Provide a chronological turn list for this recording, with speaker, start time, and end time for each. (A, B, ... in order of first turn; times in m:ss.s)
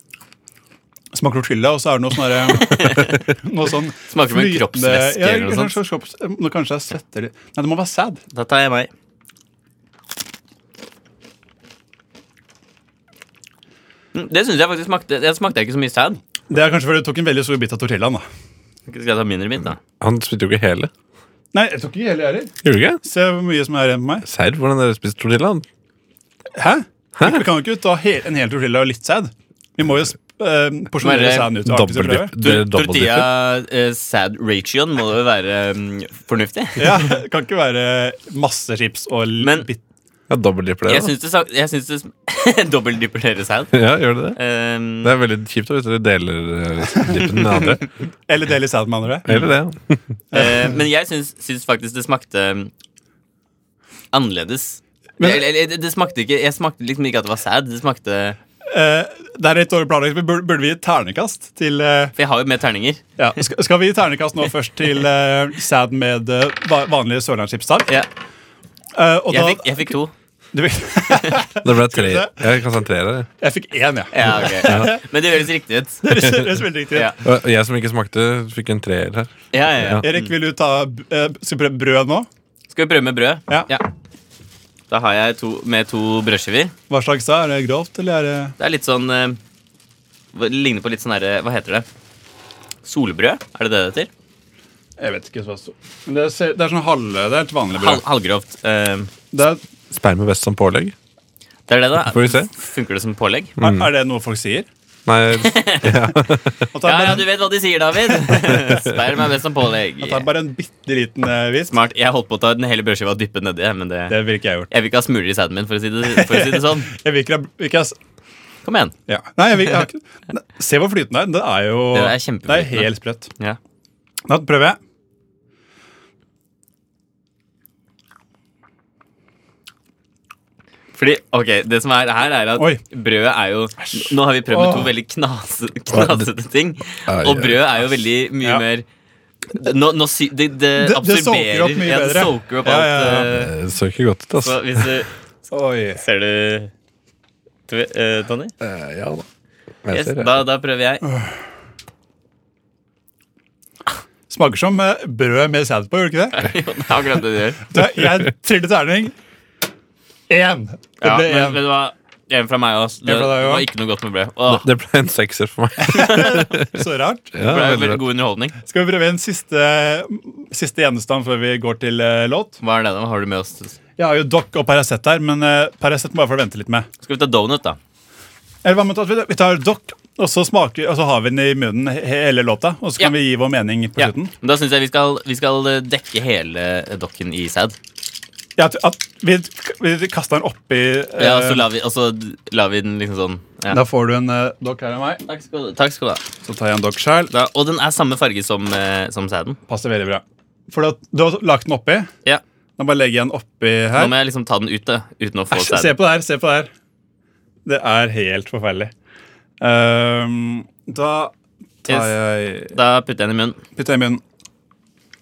0:01.1-0:08.2 A
0:02.5-0:03.2 B
0:04.1-0:05.7 B
0:08.3-0:08.9 B
0:14.1-0:16.2 B
0:16.5-0:18.2 A
0:18.9-0:19.8 B
0:20.0-0:20.9 C
0:21.5-0:24.2 A
0:22.6-0:23.0 C
0:24.2-0:25.6 C
0:26.6-0:32.3 A
0:27.2-0:27.4 C
0:31.0-0:31.5 B
0:31.6-0:33.3 C
0:32.4-0:37.1 B
0:36.8-0:39.8 A
0:39.4-0:39.7 B
0:40.3-0:41.1 C
0:40.9-0:43.7 B
0:43.7-0:44.4 C
0:44.3-0:45.1 B
0:45.0-0:47.8 C
0:48.3-0:49.3 A
0:49.2-0:50.2 C
0:50.3-0:50.8 A
0:50.3-0:52.7 B
0:54.1-0:58.4 B
0:55.2-0:55.4 A
0:58.7-1:02.1 A
1:02.2-1:03.0 B
1:03.2-1:07.9 A
1:08.9-1:10.0 A
1:09.3-1:10.1 B
1:10.5-1:12.4 A
1:11.6-1:13.3 C
1:13.4-1:15.0 A
1:14.1-1:16.0 B
1:14.6-1:14.9 C
1:16.0-1:17.1 A
1:17.2-1:20.0 C
1:19.5-1:20.3 B
1:20.0-1:22.3 A
1:22.7-1:23.9 B
1:24.9-1:26.7 B
1:26.9-1:28.5 A
1:28.6-1:29.4 B
1:30.3-1:31.8 B
1:32.8-1:34.1 B
1:35.0-1:38.0 A
1:37.7-1:39.1 B
1:39.3-1:39.6 A
1:39.9-1:40.9 C
1:41.7-1:43.5 B
1:42.1-1:42.5 C
1:43.6-1:43.9 C
1:43.6-1:44.7 A
1:45.1-1:46.7 C
1:45.4-1:45.9 B
1:46.7-1:47.3 A
1:46.8-1:50.2 B
1:48.3-1:48.9 C
1:50.0-1:51.7 A
1:51.7-1:54.2 B
1:54.1-1:54.7 A
1:54.7-1:56.9 B
1:56.1-1:58.0 A
1:58.6-1:58.9 B
1:59.1-2:03.3 A
2:01.9-2:03.6 B
2:04.3-2:04.8 A
2:10.9-2:18.8 B
2:13.8-2:14.9 A
2:15.9-2:16.3 C
2:17.0-2:17.6 C
2:19.5-2:23.5 B
2:20.7-2:23.5 A
2:23.2-2:24.9 C
2:24.4-2:25.1 B
2:25.5-2:26.0 A
2:26.0-2:26.7 B
2:27.7-2:28.5 B
2:28.6-2:29.2 C
2:29.8-2:30.4 C
2:29.9-2:31.0 B
2:31.0-2:31.3 A
2:34.3-2:36.5 A
2:36.3-2:37.6 B
2:37.7-2:39.1 A
2:40.3-2:41.6 A
2:41.0-2:44.6 B
2:43.0-2:43.7 A
2:44.5-2:46.7 C
2:45.8-2:47.3 A
2:47.3-2:48.0 C
2:47.4-2:48.6 B
2:48.6-2:52.6 A
2:52.6-2:53.7 B
2:54.0-2:56.9 A
2:57.0-2:57.8 B
2:58.6-3:04.3 A
3:04.0-3:07.8 B
3:08.6-3:11.6 A
3:11.2-3:13.8 B
3:13.7-3:15.2 A
3:15.2-3:16.2 B
3:16.4-3:17.3 A
3:17.3-3:19.6 B
3:19.7-3:22.1 A
3:22.8-3:24.1 A
3:23.9-3:26.0 B
3:25.5-3:26.7 A
3:27.6-3:28.9 A
3:29.6-3:31.3 A
3:31.8-3:32.7 A
3:31.9-3:32.1 B
3:32.7-3:33.6 B
3:33.8-3:34.2 A